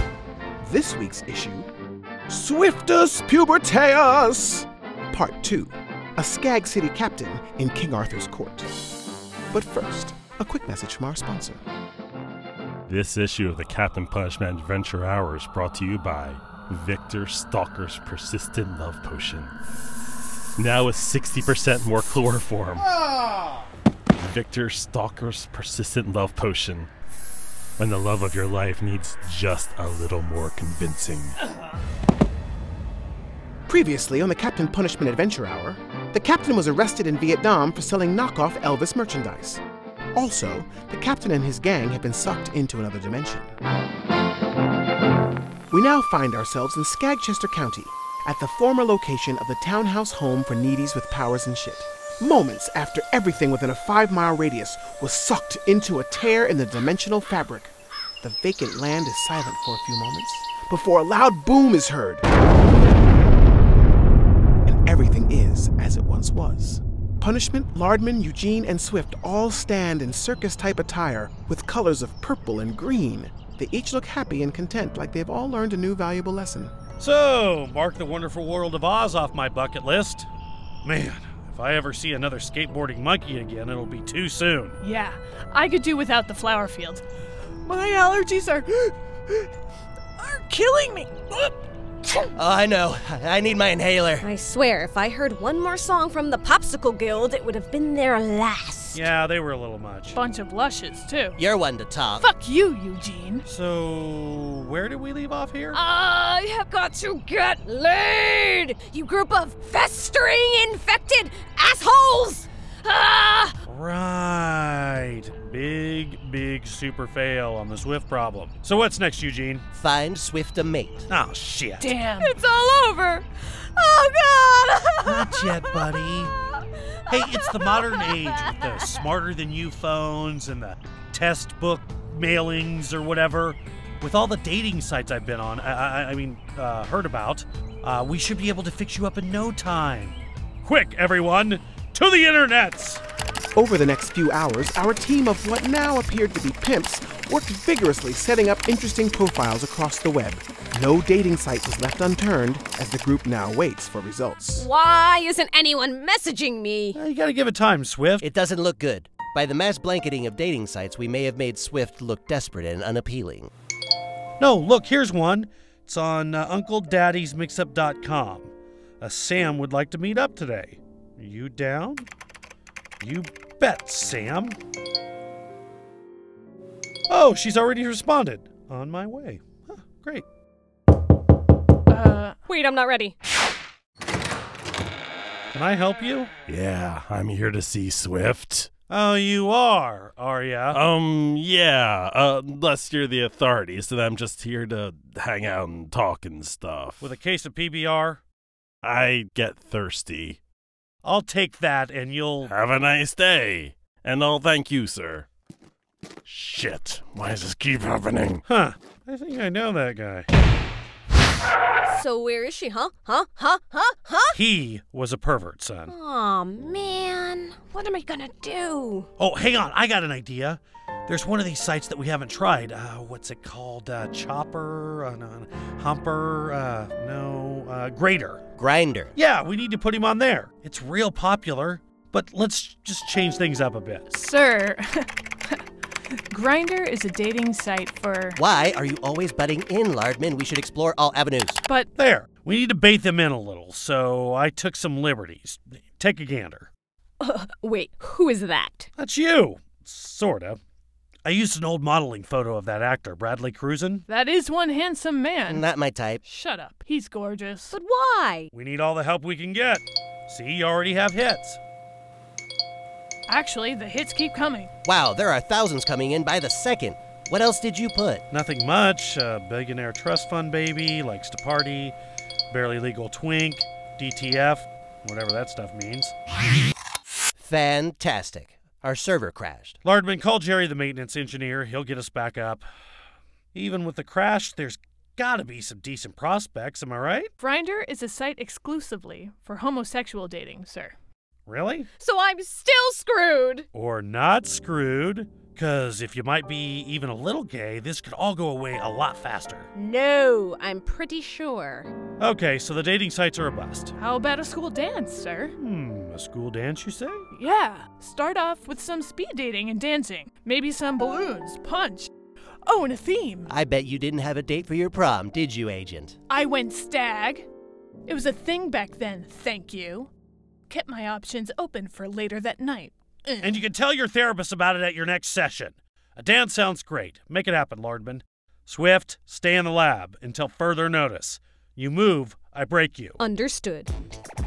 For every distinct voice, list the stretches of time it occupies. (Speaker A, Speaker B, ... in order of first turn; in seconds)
Speaker A: 0.6-1.7, 2.3-8.7, 9.5-11.6, 33.7-39.6, 40.1-43.5, 45.7-62.2, 64.7-76.7, 143.5-154.7
Speaker B: 12.9-19.5, 20.6-23.1, 24.2-26.9, 27.8-31.4, 186.5-188.7, 190.7-197.1, 198.8-200.4, 202.4-205.2, 206.2-208.4
Speaker C: 77.0-80.3, 80.8-84.8, 98.9-100.2, 103.5-105.8, 113.7-119.6, 121.1-121.9, 125.0-126.3, 127.1-143.0, 156.9-158.2, 164.4-172.1, 173.0-174.6, 177.1-180.2, 185.5-186.3, 188.9-190.8, 197.0-198.2, 201.0-202.5, 208.4-210.3, 214.3-215.9, 219.2-228.4, 229.2-234.0, 241.9-246.7, 249.0-250.6, 251.2-254.0, 258.5-261.6, 268.3-271.9, 272.5-276.1, 279.8-282.7, 283.5-287.3, 291.4-291.9, 293.7-299.7, 302.2-303.9, 305.6-307.3, 323.4-333.2
Speaker D: 84.8-87.0, 87.6-89.5, 90.2-92.2, 100.1-101.4, 102.2-103.4, 121.8-122.3, 181.9-182.4, 234.1-235.6, 236.3-238.4, 241.6-241.9, 254.1-255.6, 256.2-257.7, 263.3-264.7, 287.4-290.9, 304.0-305.5, 307.3-312.1, 312.6-313.5, 316.3-317.4, 318.1-320.1, 320.7-323.6
Speaker E: 92.3-94.2, 101.3-102.2, 119.7-121.1, 158.2-163.5, 228.6-229.1, 238.3-241.6, 255.5-256.2, 264.8-268.2, 277.4-279.8, 313.5-316.2
Speaker F: 94.2-99.0, 105.7-113.6, 122.2-129.0, 154.6-157.0, 182.5-183.1, 211.8-214.4, 215.9-219.1, 247.2-248.9, 257.7-258.5, 292.0-293.7, 299.7-301.9, 333.2-333.9